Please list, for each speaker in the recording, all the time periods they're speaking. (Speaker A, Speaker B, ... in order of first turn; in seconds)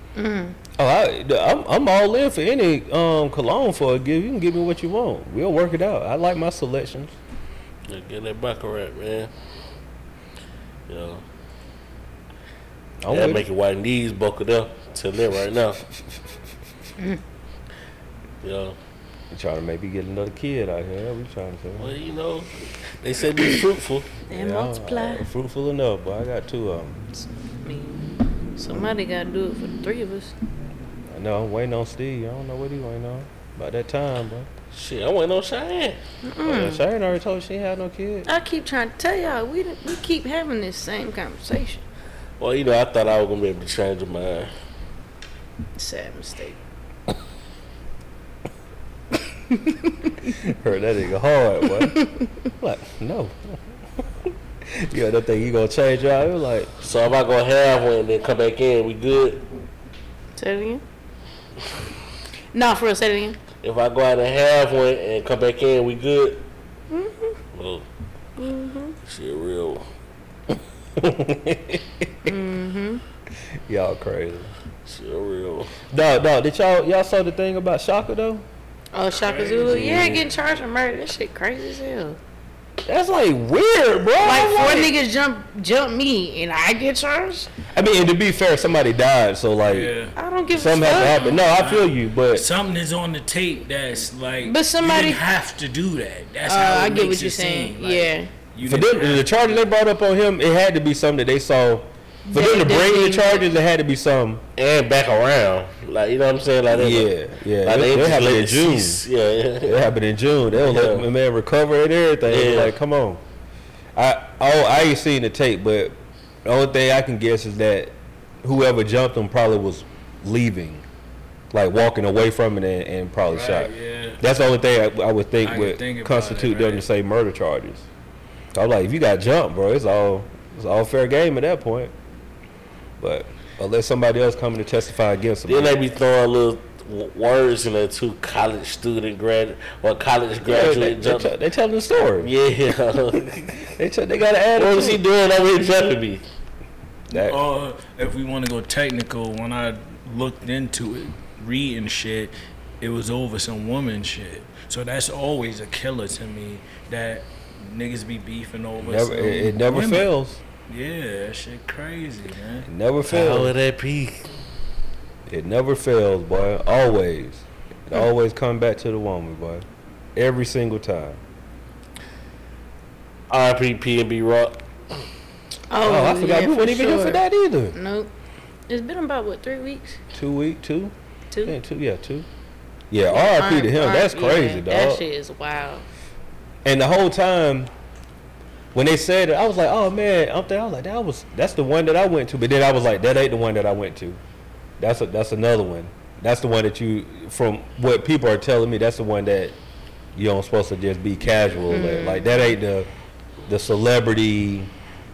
Speaker A: 0.1-0.6, 24.3-25.2, 27.1-30.3, 36.2-36.8, 38.2-41.8, 45.8-46.6, 52.0-52.2, 60.4-60.8, 62.5-63.4, 66.9-67.4, 68.4-69.0, 72.2-73.0, 78.9-82.2, 84.2-87.5, 90.2-91.3, 94.4-95.2, 96.5-98.3, 102.3-103.5, 175.7-177.2, 177.7-178.1, 178.7-180.0, 183.1-185.8, 201.7-202.6
Speaker B: 0.8-7.1, 13.0-13.4, 19.3-21.9, 24.3-27.0, 31.1-34.5, 36.4-38.3, 50.4-52.0, 52.6-53.6, 54.7-56.7, 71.0-72.3, 73.7-74.5, 75.9-78.4, 82.8-85.0, 87.7-89.9, 90.5-92.5, 98.6-104.4, 106.7-109.0, 109.6-113.2, 114.0-120.8, 121.5-127.8, 128.5-131.9, 133.0-135.8, 140.4-142.3, 143.8-145.0, 147.1-147.4, 158.8-160.4, 162.7-163.5, 165.3-169.6, 170.2-171.2, 175.8-177.7, 180.1-180.9, 181.4-182.3, 182.9-185.0, 186.6-187.7, 188.7-194.2, 194.8-199.6, 200.1-202.9, 203.5-204.7
Speaker C: 7.9-9.3, 10.9-11.2, 13.1-15.8, 18.4-18.8, 21.8-22.5, 23.0-24.1, 34.7-36.0, 42.4-44.5, 56.8-59.4, 63.6-66.4, 67.5-67.8, 69.0-69.8, 74.8-75.7, 79.7-80.2, 104.6-107.1, 107.6-109.9, 110.6-111.1, 112.3-112.7, 135.5-141.3, 142.2-143.7, 144.6-146.2, 163.1-164.2, 173.3-174.6
Speaker D: 79.1-79.9, 89.7-90.1, 90.8-99.6, 123.3-124.2, 125.4-126.8, 147.1-160.1, 160.7-162.7